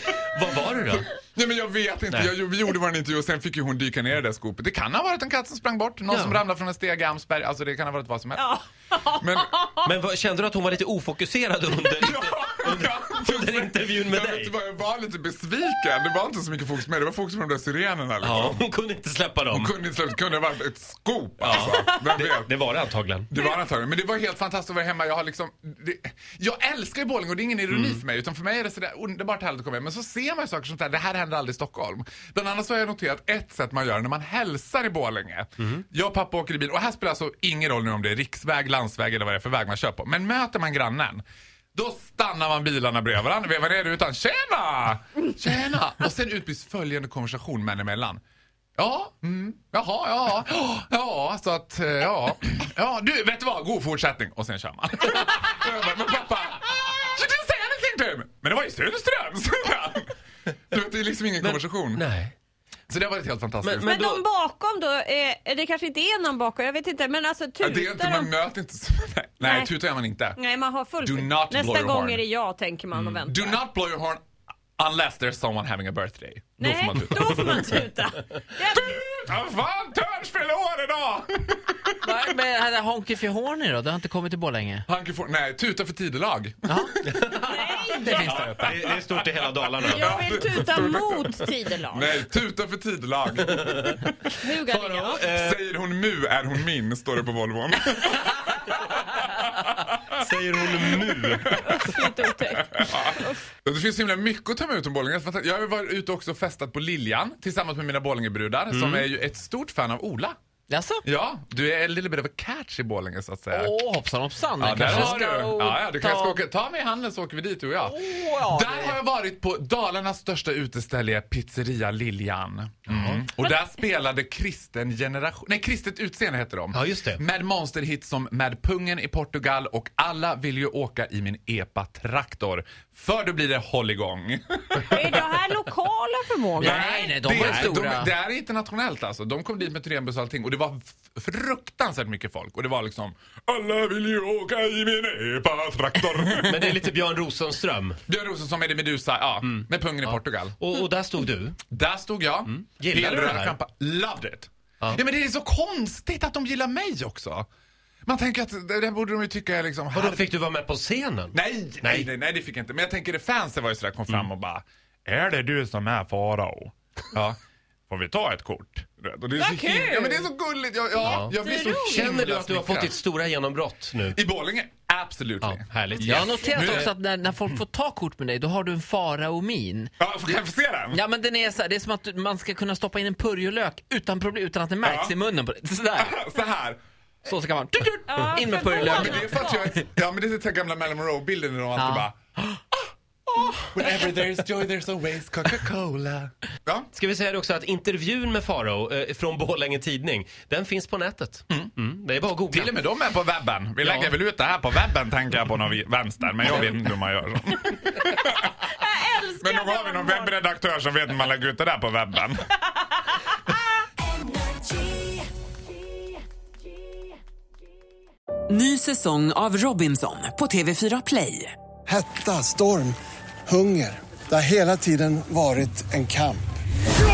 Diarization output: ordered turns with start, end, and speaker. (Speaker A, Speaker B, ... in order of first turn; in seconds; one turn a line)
Speaker A: 0.3-1.1
Speaker B: 1.2-8.6
Speaker A: 6.1-6.4
Speaker C: 8.4-9.8
Speaker B: 9.2-9.5
Speaker A: 9.8-14.5
Speaker B: 12.0-18.6
Speaker A: 18.2-19.7
Speaker B: 19.5-22.5
Speaker A: 21.4-23.3
Speaker B: 23.3-48.2
Speaker A: 27.7-28.0
Speaker B: 48.8-60.2
Speaker B: 60.7-62.0
Speaker A: 61.4-62.3
Speaker B: 62.9-64.0
Speaker A: 63.6-64.2
Speaker C: 63.8-68.4
Speaker B: 67.6-70.4
Speaker C: 69.4-69.8
Speaker C: 70.4-73.5
Speaker B: 71.0-72.2
Speaker A: 72.9-73.3
Speaker B: 73.2-74.2
Speaker B: 74.8-77.8
Speaker C: 76.6-79.0
Speaker B: 78.7-82.3
Speaker D: 82.0-84.8
Speaker B: 84.9-86.9
Speaker A: 87.0-90.2
Speaker C: 87.4-88.3
Speaker B: 87.9-89.2
Speaker D: 88.0-88.8
Speaker C: 89.8-92.2
Speaker B: 90.0-94.0
Speaker A: 93.6-94.0
Speaker C: 94.4-95.4
Speaker A: 94.6-95.6
Speaker B: 95.3-98.5
Speaker B: 99.9-100.2
Speaker A: 100.2-102.1
Speaker B: 101.2-101.8
Speaker C: 101.6-103.5
Speaker B: 102.5-110.4
Speaker A: 108.7-109.0
Speaker D: 110.7-111.0
Speaker B: 111.0-113.8
Speaker D: 113.5-116.5
Speaker B: 114.6-135.3
Speaker D: 117.8-119.0
Speaker A: 122.9-123.3
Speaker A: 126.7-127.2
Speaker C: 134.8-137.3
Speaker D: 136.6-138.1
Speaker B: 136.7-146.8
Speaker A: 137.3-137.8
Speaker A: 146.4-148.0
Speaker B: 148.1-150.6
Speaker A: 149.4-151.6
Speaker B: 151.7-157.5
Speaker A: 152.5-153.6
Speaker B: 158.1-160.2
Speaker A: 159.9-162.1
Speaker B: 161.3-173.0
Speaker A: 171.0-174.2
Speaker C: 171.1-172.1
Speaker B: 174.1-176.9
Speaker A: 175.4-176.9
Speaker D: 176.0-180.3
Speaker C: 176.2-176.8
Speaker B: 180.0-181.0
Speaker D: 180.9-186.2
Speaker B: 184.8-185.2
Speaker B: 186.0-186.8
Speaker D: 187.2-189.8
Speaker C: 188.1-189.7
Speaker B: 188.8-192.2
Speaker D: 191.8-192.6
Speaker B: 193.3-196.9
Speaker A: 196.9-202.8
Speaker B: 202.5-208.5
Speaker A: 203.8-204.1
Speaker C: 208.7-210.4
Speaker B: 209.4-212.5
Speaker E: 218.5-221.5
Speaker F: 221.9-223.0
Speaker F: 223.5-226.4